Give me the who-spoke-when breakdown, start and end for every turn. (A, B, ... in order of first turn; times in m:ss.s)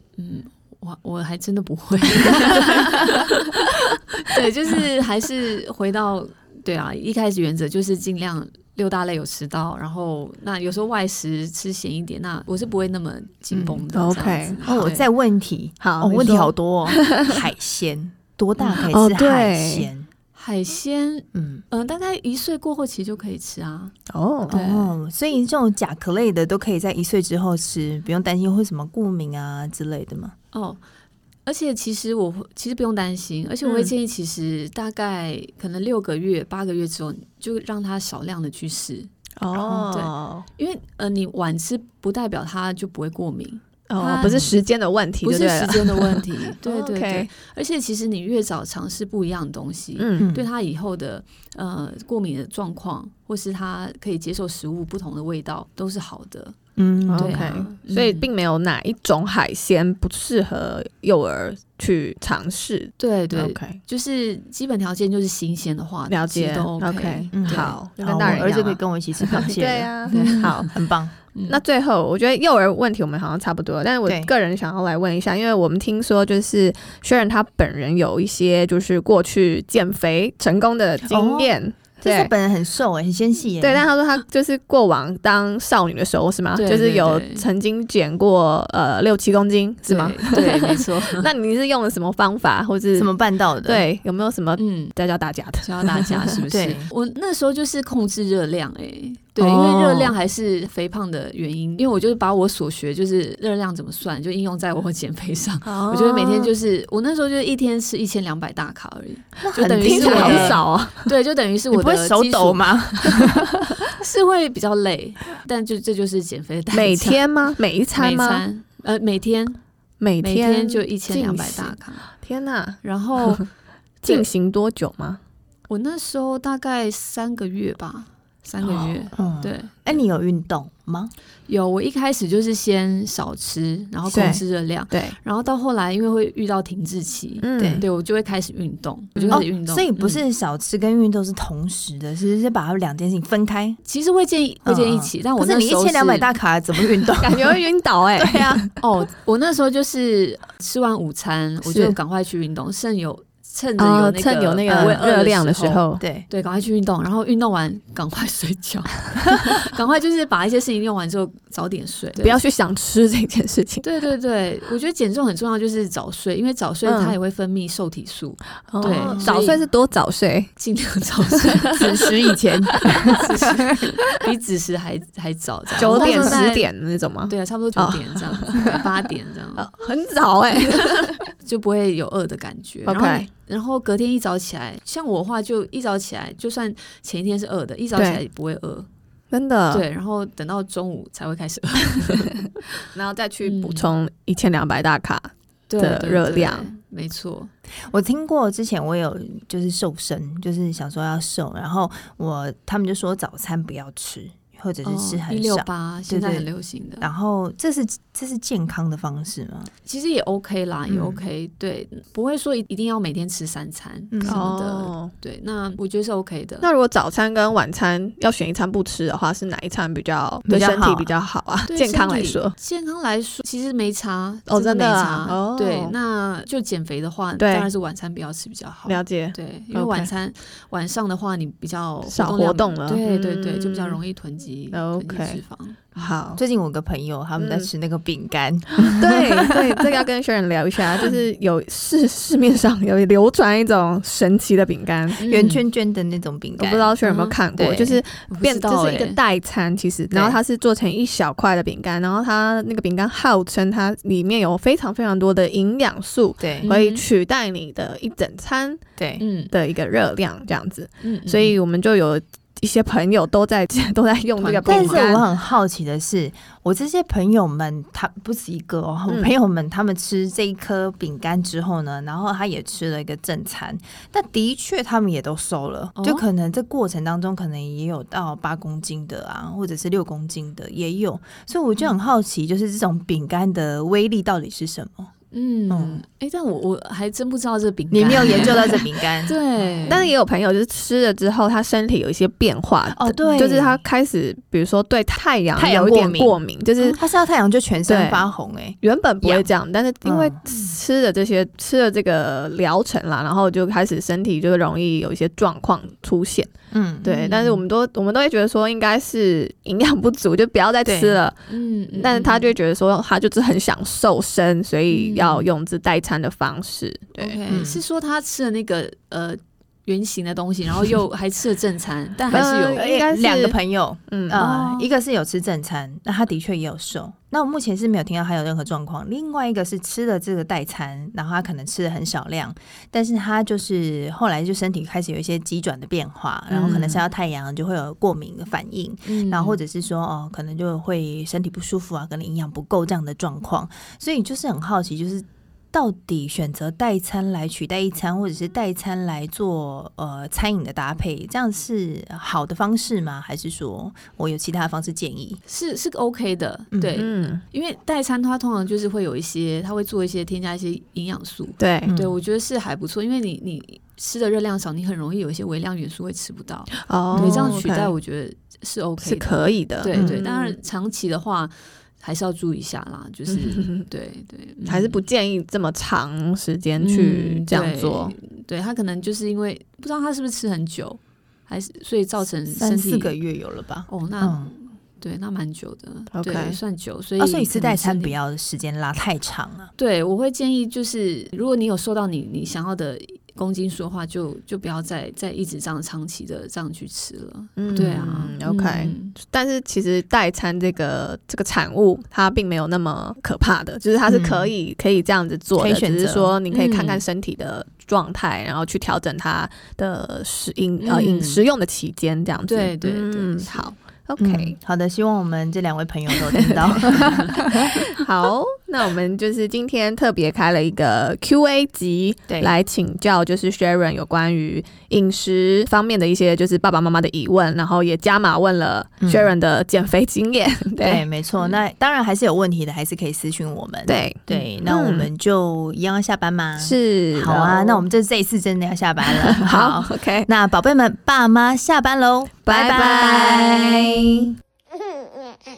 0:00.2-0:15.1 A
0:13.5-0:13.8 B
0:13.9-0:14.7 C
0:14.6-0:20.1 B
0:15.8-0:17.3 C
0:18.6-0:18.9 A
0:18.9-0:19.9 C
0:20.3-0:23.9 A
0:21.3-0:21.6 B
0:24.1-0:24.5 C
0:24.5-0:24.9 A
0:24.5-0:30.3 B
0:30.5-0:30.8 A
0:31.4-0:39.1 A
0:33.6-0:33.9 B
0:39.4-0:40.4 C
0:39.5-0:39.8 B
0:39.7-0:44.5 A
0:43.9-0:47.3 C
0:44.2-0:44.5 B
0:45.2-0:56.6 A
0:50.0-0:50.3 C
0:50.2-0:50.5 B
0:56.8-0:57.5 B
0:57.1-1:03.8 C
0:57.2-0:58.3 A
1:03.0-1:08.4 A
1:06.1-1:10.7 C
1:07.3-1:11.1 B
1:10.1-1:10.8 A
1:11.3-1:11.6 A
1:11.5-1:22.3 C
1:14.0-1:14.3 B
1:21.1-1:23.8 B
1:23.6-1:33.1 C
1:26.5-1:27.4 A
1:29.9-1:31.3 A
1:32.9-1:33.9 B
1:33.6-1:36.4 C
1:34.6-1:34.9 A
1:35.6-1:53.2 A
1:36.5-1:36.9 B
1:39.4-1:40.2 C
1:45.6-1:46.5 C
1:49.4-1:50.6 B
1:49.8-1:51.1 C
1:51.7-1:53.6 B
1:53.9-1:57.3 A
1:56.7-1:58.4 C
1:57.9-1:59.6 A
2:00.0-2:03.4 C
2:00.2-2:02.1 A
2:02.8-2:03.4 A
2:04.0-2:05.2 C
2:04.0-2:04.3 A
2:05.7-2:10.0 A
2:08.6-2:09.0 C
2:09.2-2:11.1 B
2:11.5-2:20.2 A
2:14.1-2:15.2 C
2:17.4-2:17.8 C
2:17.6-2:17.8 B
2:19.2-2:19.4 C
2:19.3-2:23.8 B
2:23.8-2:26.3 A
2:24.6-2:27.6 B
2:27.2-2:28.7 C
2:28.2-2:28.6 B
2:28.8-2:42.4 A
2:31.6-2:32.0 C
2:33.8-2:36.0 C
2:34.6-2:35.0 B
2:36.0-2:36.3 B
2:42.2-2:43.8 C
2:43.8-2:49.6 A
2:46.8-2:47.2 C
2:48.7-2:50.5 C
2:48.9-2:49.5 B
2:50.6-2:52.3 A
2:51.4-2:52.1 C
2:51.8-2:53.5 B
2:52.8-2:56.7 A
2:55.8-2:58.8 C
2:55.8-2:56.4 B
2:57.3-2:59.7 A
2:59.6-3:01.2 C
3:00.7-3:08.9 A
3:02.8-3:03.3 C
3:07.9-3:08.2 C
3:09.3-3:09.9 C
3:09.7-3:12.8 A
3:12.9-3:16.7 C
3:13.4-3:13.9 A
3:15.7-3:17.5 A
3:17.9-3:26.5 B
3:24.8-3:27.1 A
3:27.0-3:29.7 B
3:29.8-3:36.7 A
3:30.9-3:31.2 B
3:34.1-3:34.4 B
3:34.2-3:35.1 C
3:36.6-3:42.5 C
3:40.4-3:41.1 B
3:41.7-3:56.2 A
3:44.5-3:46.0 C
3:47.4-3:47.7 C
3:48.8-3:50.1 C
3:52.0-3:54.0 C
3:54.7-3:55.4 C
3:56.0-3:56.4 C
3:56.4-3:59.6 B
3:57.4-3:57.7 C
3:58.8-4:05.2 C
4:05.2-4:05.6 A
4:05.2-4:07.0 B
4:06.6-4:18.8 C
4:07.0-4:09.2 A
4:07.6-4:08.0 B
4:10.1-4:10.4 B
4:16.4-4:16.7 B
4:16.6-4:17.1 A
4:19.0-4:19.2 B
4:19.2-4:19.5 A
4:19.5-4:25.2 C
4:21.0-4:21.6 A
4:24.4-4:25.0 A
4:24.6-4:45.1 B
4:36.0-4:36.2 A
4:45.3-4:50.1 A
4:45.7-4:46.0 B
4:47.9-4:50.1 B
4:48.1-4:48.5 C
4:49.9-4:57.0 C
4:52.9-4:53.8 B
4:53.2-4:53.5 A
4:55.6-4:59.5 B
4:57.9-4:58.2 C
4:58.8-5:06.5 C
5:00.0-5:00.4 B
5:06.7-5:07.1 B
5:07.0-5:11.4 C
5:07.0-5:07.6 A
5:10.8-5:11.2 B
5:11.5-5:12.5 A
5:11.9-5:17.4 C
5:14.9-5:15.5 A
5:17.2-5:22.9 A
5:17.5-5:17.8 B
5:22.3-5:23.6 C
5:22.3-5:55.4 B
5:24.1-5:24.4 C
5:24.3-5:24.9 A
5:36.5-5:37.0 C
5:39.0-5:39.6 A
5:55.5-6:15.0 A
5:56.7-5:57.0 B
5:57.0-5:57.4 C
6:01.6-6:01.9 C
6:01.9-6:02.2 B
6:06.9-6:07.9 C
6:07.1-6:07.6 B
6:09.0-6:10.6 C
6:09.9-6:10.2 B
6:13.3-6:13.8 C
6:14.6-6:18.1 C
6:16.8-6:23.1 A
6:22.6-6:24.5 B
6:23.9-6:28.2 A
6:26.1-6:26.6 C
6:27.2-6:29.7 B
6:29.8-6:39.2 A
6:37.6-6:54.6 C
6:37.7-6:38.1 B
6:44.1-6:44.5 B
6:45.6-6:46.4 B
6:46.5-6:47.0 A
6:50.8-6:51.4 A
6:52.5-6:53.7 A
6:54.2-6:57.6 B
6:56.3-7:11.1 C
7:02.3-7:02.6 B
7:09.0-7:09.3 B
7:10.8-7:24.0 B
7:13.9-7:15.1 C
7:16.6-7:17.8 C
7:19.2-7:20.3 C
7:22.4-7:24.3 C